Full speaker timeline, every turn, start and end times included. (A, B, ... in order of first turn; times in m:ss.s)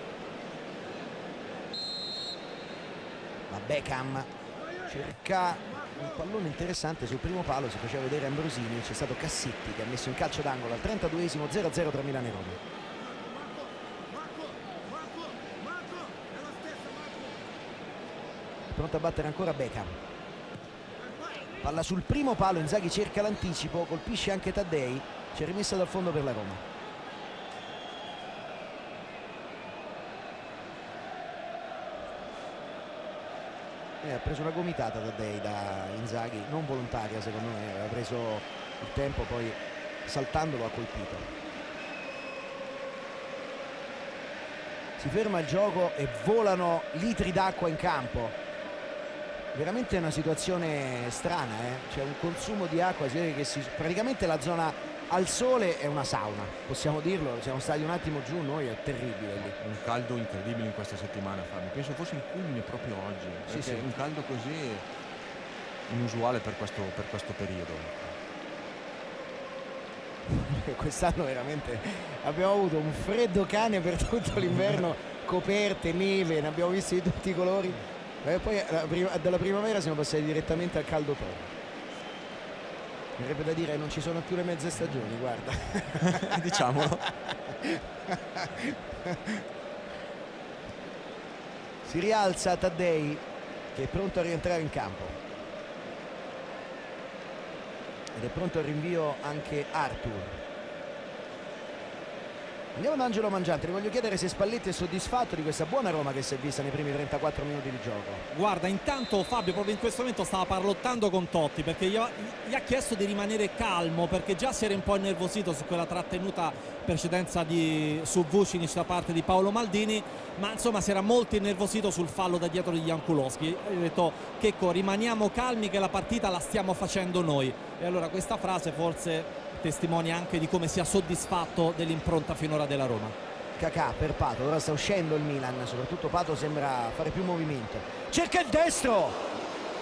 0:03.5-0:04.3 A
0:04.9-0:12.6 A
0:18.7-0:19.9 A
0:21.6-0:26.6 A
0:34.0-0:41.3 A
0:45.0-0:48.4 A
0:49.5-0:59.6 A
0:59.5-1:04.8 B
1:03.5-1:03.8 A
1:05.9-1:08.2 B
1:10.3-1:21.5 A
1:23.2-1:29.4 A
1:26.0-1:27.1 B
1:31.9-1:33.2 A
1:33.8-1:35.2 A
1:38.2-1:40.4 A
1:42.8-1:48.2 A
1:48.3-2:13.2 C
2:13.6-2:19.2 A